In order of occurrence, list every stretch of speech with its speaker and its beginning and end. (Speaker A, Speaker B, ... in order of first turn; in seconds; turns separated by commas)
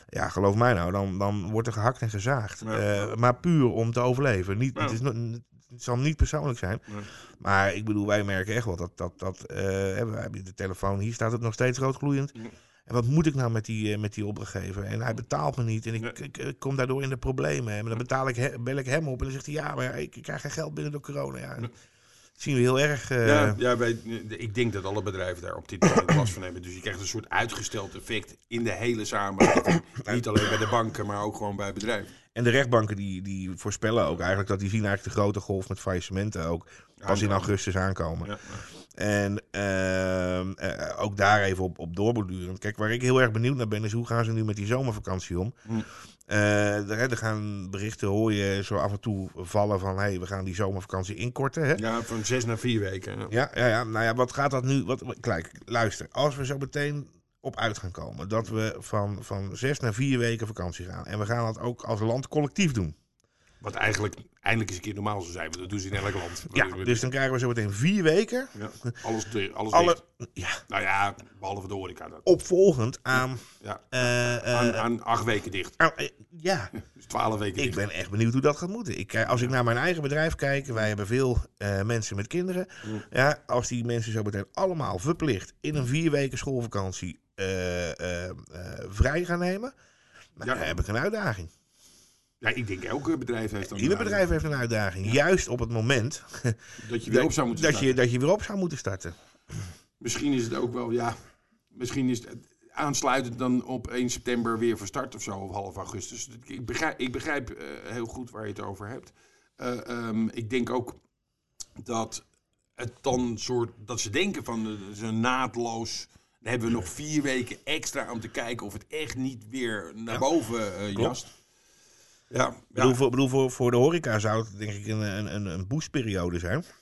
Speaker A: 0.1-21.7, Speaker B: 2.6-3.1, Speaker A: 22.4-23.6, Speaker B: 23.2-32.1, Speaker A: 32.3-45.5, Speaker B: 37.0-37.5, Speaker B: 38.2-38.6, Speaker A: 46.3-51.8, Speaker B: 51.7-53.3, Speaker A: 53.3-63.0, Speaker B: 63.6-67.0, Speaker A: 66.5-68.9, Speaker B: 68.5-70.0, Speaker A: 69.7-70.6, Speaker B: 70.7-72.3, Speaker A: 72.2-74.8, Speaker B: 73.6-75.8, Speaker A: 75.8-76.7, Speaker B: 76.8-77.8, Speaker A: 77.6-89.7, Speaker A: 90.4-91.5, Speaker B: 90.4-90.7, Speaker B: 92.4-94.3, Speaker A: 93.6-99.7, Speaker B: 96.8-97.9, Speaker B: 100.0-101.2, Speaker B: 101.7-111.0, Speaker B: 111.8-121.3, Speaker B: 122.3-123.0, Speaker A: 122.8-126.7